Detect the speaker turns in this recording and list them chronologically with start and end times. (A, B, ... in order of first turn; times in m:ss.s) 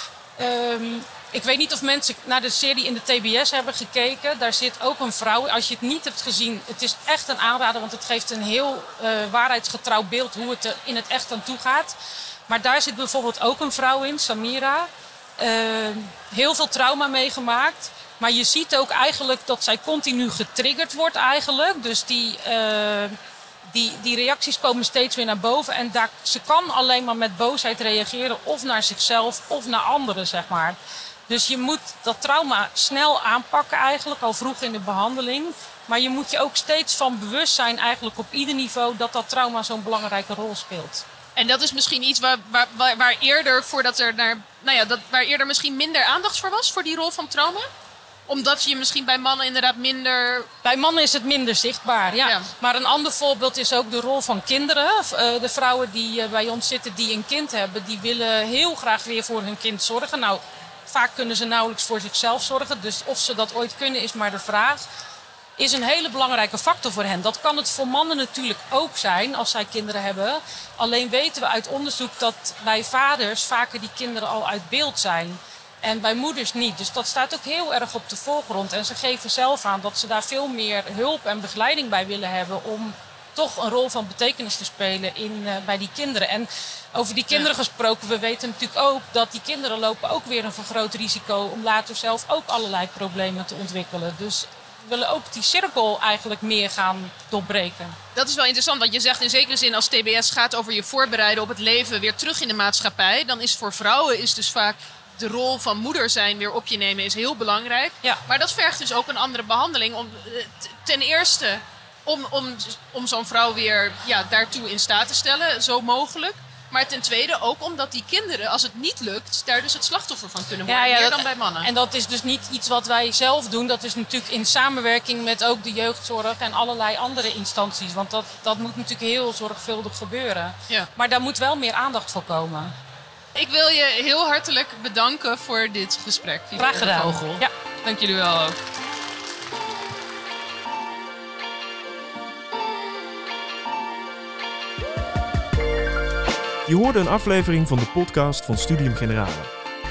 0:00.4-0:11.9 A
0:12.5-0:23.2 A
0:23.7-0:30.8 A
0:31.3-0:41.0 A
0:41.4-0:47.7 B
0:48.3-0:50.5 B
0:50.6-1:04.8 A
0:52.2-0:52.5 B
1:05.6-1:38.0 A
1:38.1-2:01.7 B
2:00.6-2:12.7 A
2:13.3-2:18.6 B
2:16.6-2:17.5 A
2:26.7-2:29.5 C